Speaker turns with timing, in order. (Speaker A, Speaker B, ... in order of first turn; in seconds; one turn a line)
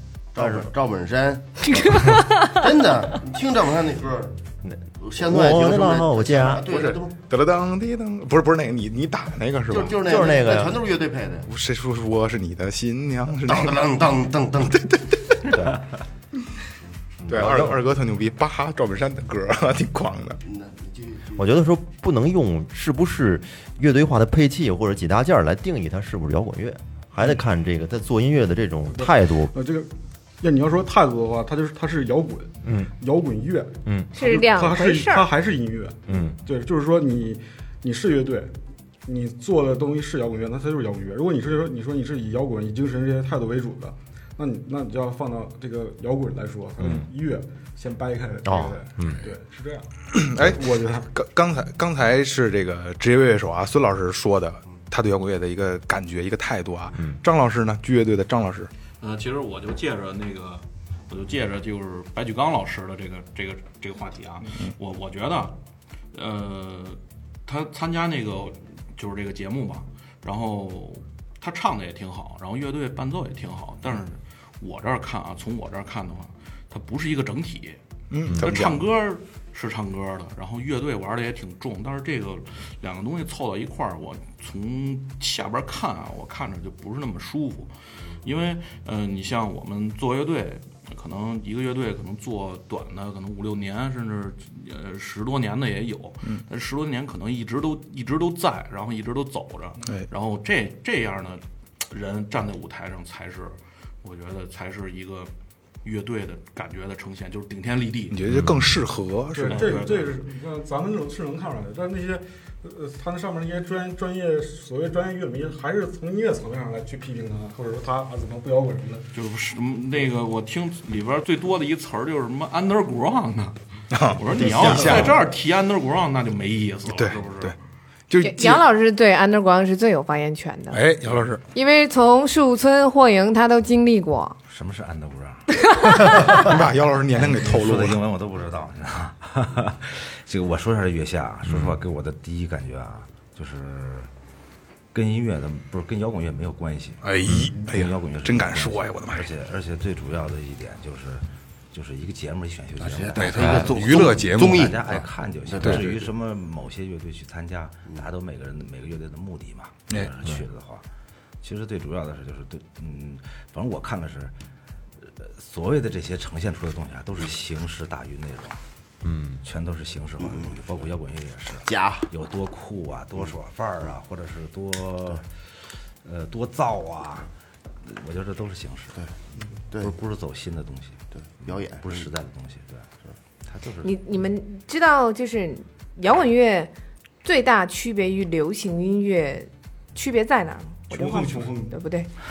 Speaker A: 0.3-4.4
Speaker B: 0.3-0.7
Speaker C: 1.7-2.6
Speaker B: 4.6-6.6
Speaker A: 5.0-7.2
Speaker D: 6.7-9.9
Speaker A: 9.7-11.5
Speaker B: 9.9-10.8
Speaker D: 11.5-13.8
Speaker A: 13.4-14.9
Speaker D: 14.8-15.6
Speaker D: 17.2-20.4
Speaker A: 20.4-21.4
Speaker B: 21.4-29.5
Speaker E: 28.9-38.5
Speaker B: 32.6-32.9
Speaker B: 33.8-34.1
Speaker C: 34.1-35.3
Speaker B: 36.1-36.4
Speaker E: 39.1-51.1
Speaker B: 46.8-47.1
Speaker B: 48.4-49.2
Speaker D: 50.1-58.7
Speaker F: 59.0-65.5
Speaker F: 66.1-77.8
Speaker D: 78.1-78.8
Speaker F: 78.3-105.3
Speaker F: 105.8-108.4
Speaker D: 108.1-109.7
Speaker E: 109.3-119.1
Speaker F: 109.5-110.2
Speaker F: 119.1-123.6
Speaker D: 123.9-125.2
Speaker F: 124.1-127.6
Speaker E: 124.7-125.1
Speaker D: 126.9-127.6
Speaker D: 128.1-128.6
Speaker C: 128.2-130.8
Speaker D: 130.7-131.4
Speaker C: 131.5-134.4
Speaker G: 134.5-135.4
Speaker C: 135.6-136.4
Speaker D: 136.2-138.0
Speaker G: 137.1-144.1
Speaker B: 141.5-141.8
Speaker G: 144.9-160.8
Speaker D: 147.0-149.3
Speaker A: 152.8-155.8
Speaker D: 153.1-155.0
Speaker D: 155.6-156.0
Speaker G: 161.4-164.3
Speaker G: 165.0-168.6
Speaker B: 169.0-169.4
Speaker G: 169.4-175.3
Speaker A: 171.7-172.1
Speaker G: 176.0-177.3
Speaker G: 177.8-179.0
Speaker G: 179.8-182.9
Speaker A: 181.1-182.0
Speaker G: 183.4-183.9
Speaker C: 183.8-186.7
Speaker C: 187.2-192.1
Speaker E: 190.9-191.8